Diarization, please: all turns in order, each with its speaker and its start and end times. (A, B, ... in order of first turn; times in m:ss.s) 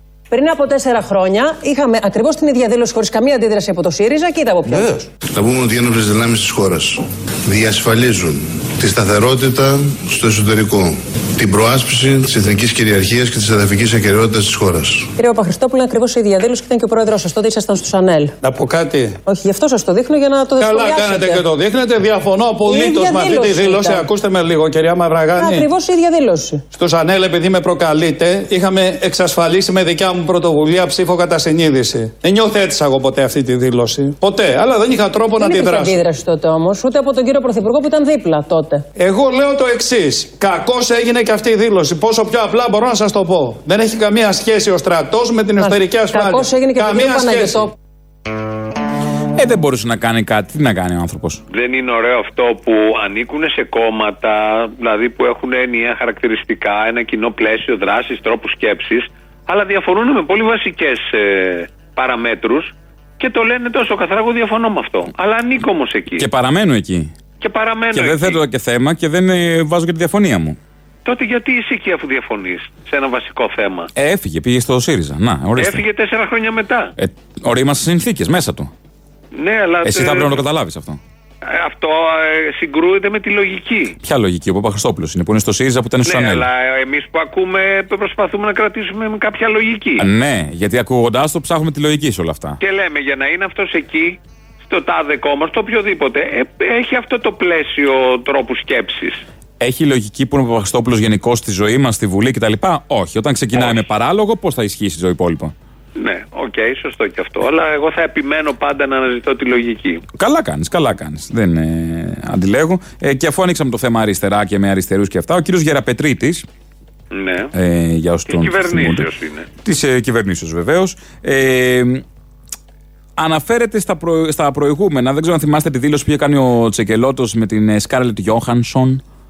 0:00.3-0:05.0 A
0:05.2-0:15.1 B
0:15.2-0:18.3 A
0:18.4-0:19.2 C
0:19.2-0:21.4 A
0:20.6-0:25.7 C
0:22.6-0:24.0 A
0:25.4-0:26.6 A
0:26.7-0:35.9 C
0:35.4-0:38.8 A
0:39.0-0:47.7 C
0:45.6-0:47.7 A
0:49.4-0:51.4 D
0:51.5-1:06.2 E
1:06.2-1:07.1 D
1:07.4-1:08.4 E
1:07.9-1:10.6 D
1:11.0-1:13.9 E
1:14.0-1:15.8 D
1:15.6-1:16.9 E
1:17.0-1:18.7 D
1:19.3-1:20.4 E
1:19.8-1:21.0 D
1:21.4-1:24.0 E
1:24.0-1:26.4 D
1:26.0-1:30.0 E
1:30.0-1:32.6 D
1:32.6-1:39.2 E
1:39.6-1:45.5 D
1:43.5-1:43.8 E
1:46.0-1:50.0 E
1:50.2-1:56.4 D
1:57.1-1:57.5 E
1:57.5-1:59.0 D
1:58.3-1:59.5 E
1:59.6-2:02.0 D
2:03.2-2:09.0 D